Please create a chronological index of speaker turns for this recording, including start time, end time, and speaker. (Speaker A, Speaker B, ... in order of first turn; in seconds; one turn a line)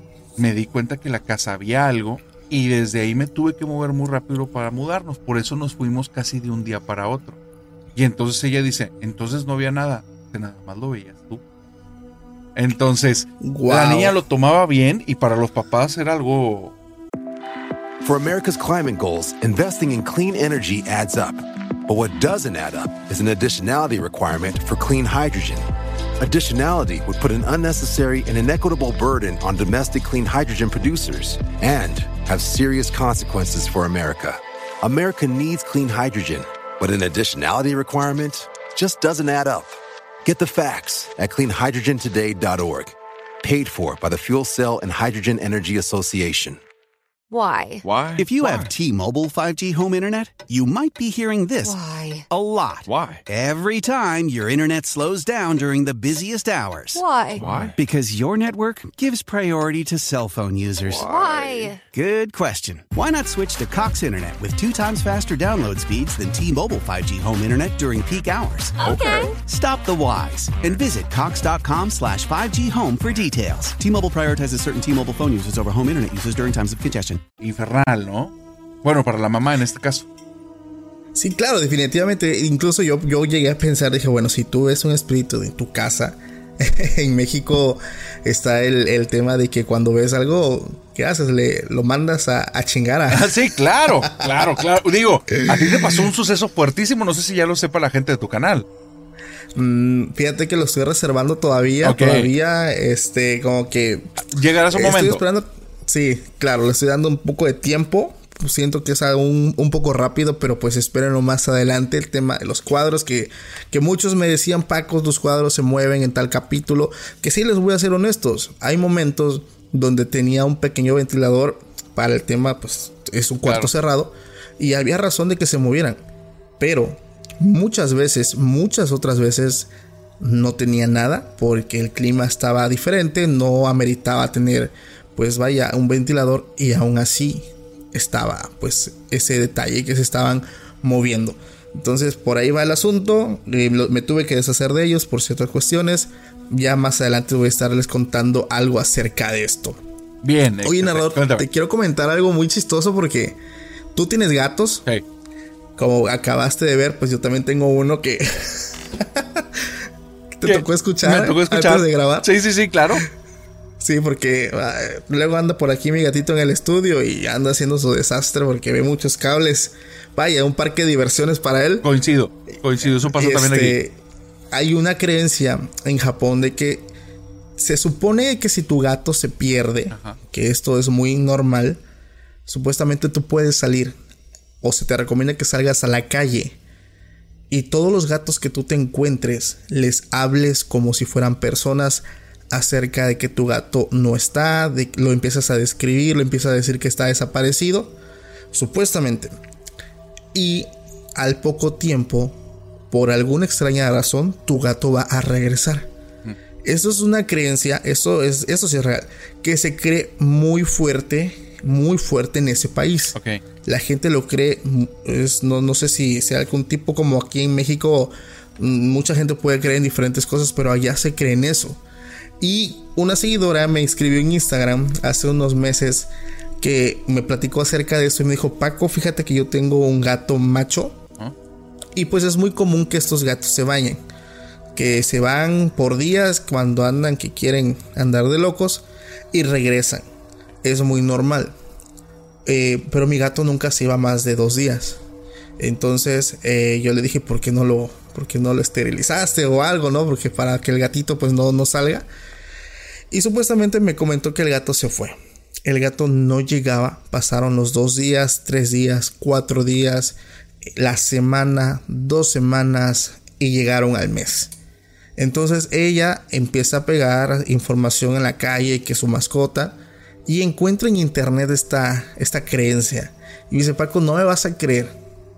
Speaker A: 0.4-7.4
Speaker A: 8.0-11.4
Speaker A: 12.6-16.7
Speaker B: 13.4-14.2
Speaker C: 18.0-25.6
Speaker C: 26.2-46.6
Speaker D: 47.3-47.9
Speaker E: 48.2-51.8
Speaker D: 51.6-52.3
Speaker E: 52.3-57.0
Speaker D: 56.9-57.5
Speaker E: 57.7-61.1
Speaker D: 61.0-61.8
Speaker E: 61.9-77.2
Speaker D: 68.8-69.3
Speaker A: 77.4-80.0
Speaker B: 81.1-94.4
Speaker A: 93.1-98.7
Speaker B: 95.4-96.1
Speaker B: 99.5-126.0
Speaker A: 101.8-102.3
Speaker A: 104.3-105.2
Speaker B: 126.6-149.8
Speaker A: 150.2-151.4
Speaker B: 150.6-153.4
Speaker B: 153.9-154.8
Speaker B: 155.8-159.7
Speaker B: 160.4-162.3
Speaker A: 160.4-163.1
Speaker B: 163.8-171.9
Speaker A: 171.8-173.8
Speaker B: 173.0-176.9
Speaker B: 177.6-181.8
Speaker A: 179.9-180.2
Speaker B: 182.4-183.9
Speaker B: 184.6-186.6
Speaker B: 187.5-197.9
Speaker B: 198.5-199.3
Speaker B: 200.3-202.3
Speaker B: 202.9-205.9
Speaker B: 206.6-221.8
Speaker A: 213.2-213.4
Speaker B: 222.4-231.0
Speaker B: 231.9-234.0
Speaker B: 234.7-240.0
Speaker B: 240.6-241.5
Speaker B: 242.4-245.0
Speaker B: 245.6-252.1
Speaker B: 253.1-264.5
Speaker B: 265.2-274.9